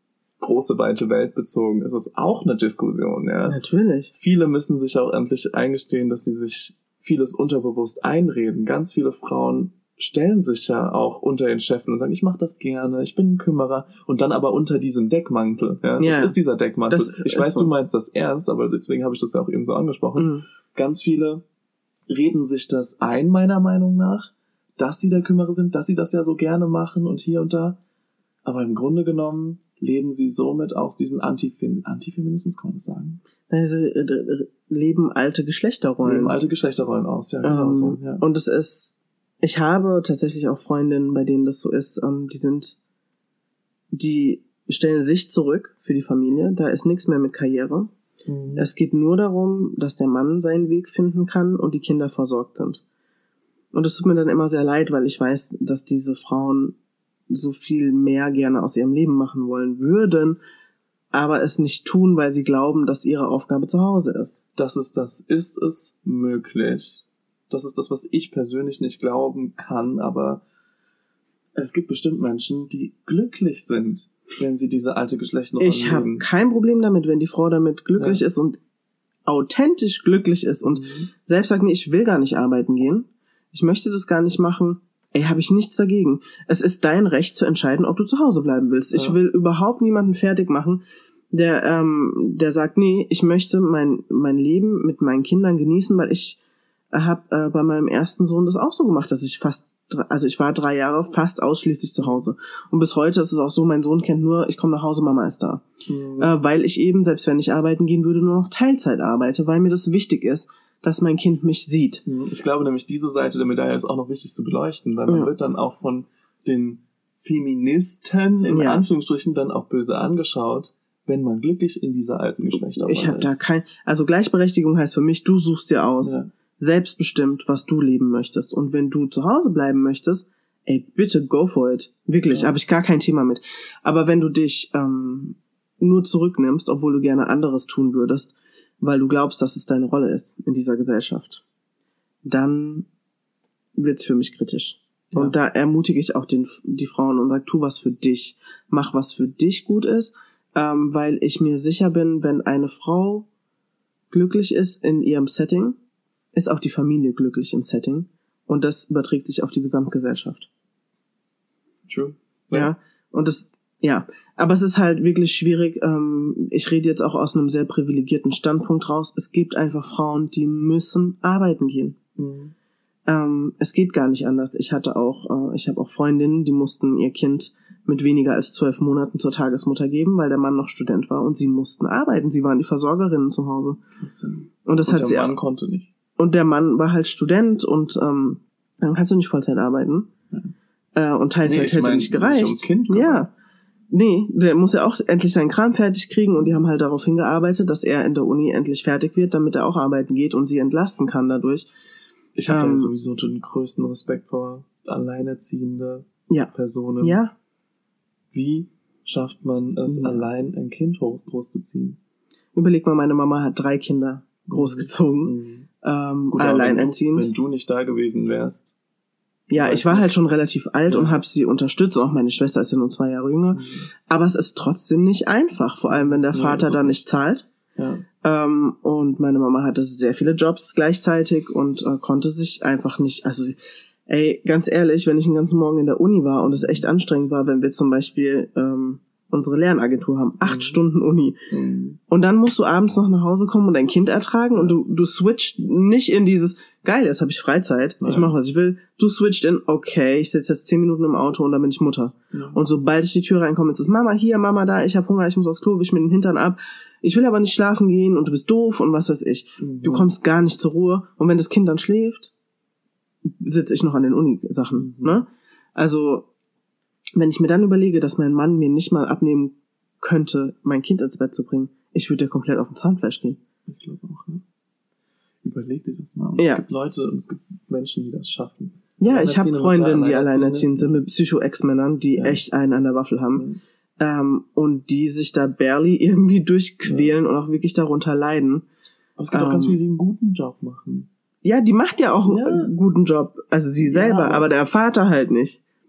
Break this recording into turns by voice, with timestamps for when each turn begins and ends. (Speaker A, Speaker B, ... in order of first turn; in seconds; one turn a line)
Speaker A: 0.4-3.6
Speaker B: 3.5-4.1
Speaker A: 4.1-21.4
Speaker B: 16.0-17.7
Speaker B: 20.1-20.4
Speaker A: 22.1-27.8
Speaker A: 28.4-33.2
Speaker B: 33.5-36.3
Speaker A: 36.0-38.2
Speaker B: 37.4-42.8
Speaker B: 43.9-47.9
Speaker A: 48.2-48.7
Speaker B: 48.5-52.8
Speaker B: 53.7-56.7
Speaker B: 57.3-60.4
Speaker B: 61.1-64.4
Speaker A: 64.5-70.4
Speaker A: 71.5-76.2
Speaker B: 75.6-78.6
Speaker B: 79.2-96.4
Speaker A: 80.6-81.1
Speaker B: 96.9-105.6
Speaker A: 102.0-102.2
Speaker A: 105.8-106.3
Speaker B: 106.2-112.0
Speaker A: 112.0-123.5
Speaker B: 118.5-118.8
Speaker B: 122.8-141.4
Speaker A: 126.0-126.3
Speaker A: 132.3-132.5
Speaker B: 142.2-142.9
Speaker B: 143.8-153.3
Speaker B: 154.1-155.8
Speaker B: 156.3-160.5
Speaker A: 161.9-162.7
Speaker B: 162.5-172.0
Speaker A: 172.2-172.5
Speaker B: 173.1-183.8
Speaker A: 184.0-185.9
Speaker B: 184.7-185.3
Speaker B: 186.2-190.1
Speaker B: 190.9-193.3
Speaker A: 191.4-193.2
Speaker B: 193.9-201.7
Speaker A: 202.3-207.2
Speaker B: 202.5-202.9
Speaker B: 206.3-207.3
Speaker A: 208.3-212.0
Speaker B: 209.8-210.2
Speaker B: 212.5-217.3
Speaker A: 214.5-215.7
Speaker A: 216.3-218.8
Speaker B: 219.5-227.4
Speaker A: 219.5-220.2
Speaker A: 220.9-221.2
Speaker A: 223.5-223.9
Speaker A: 225.9-227.1
Speaker A: 227.8-228.0
Speaker B: 228.2-233.6
Speaker B: 234.1-241.5
Speaker A: 240.4-240.8
Speaker A: 241.5-242.0
Speaker B: 242.1-262.3
Speaker A: 248.0-248.3
Speaker A: 252.3-252.6
Speaker A: 259.6-260.1
Speaker B: 263.2-266.3
Speaker A: 264.7-265.2
Speaker B: 267.1-273.4
Speaker A: 273.6-274.4
Speaker A: 275.4-281.0
Speaker B: 276.4-276.6
Speaker B: 279.0-283.5
Speaker A: 282.1-282.4
Speaker A: 283.3-283.6
Speaker B: 284.0-288.6
Speaker A: 286.8-287.1
Speaker A: 289.2-291.1
Speaker B: 289.3-289.8
Speaker B: 291.4-295.6
Speaker A: 292.3-292.7
Speaker A: 293.8-294.5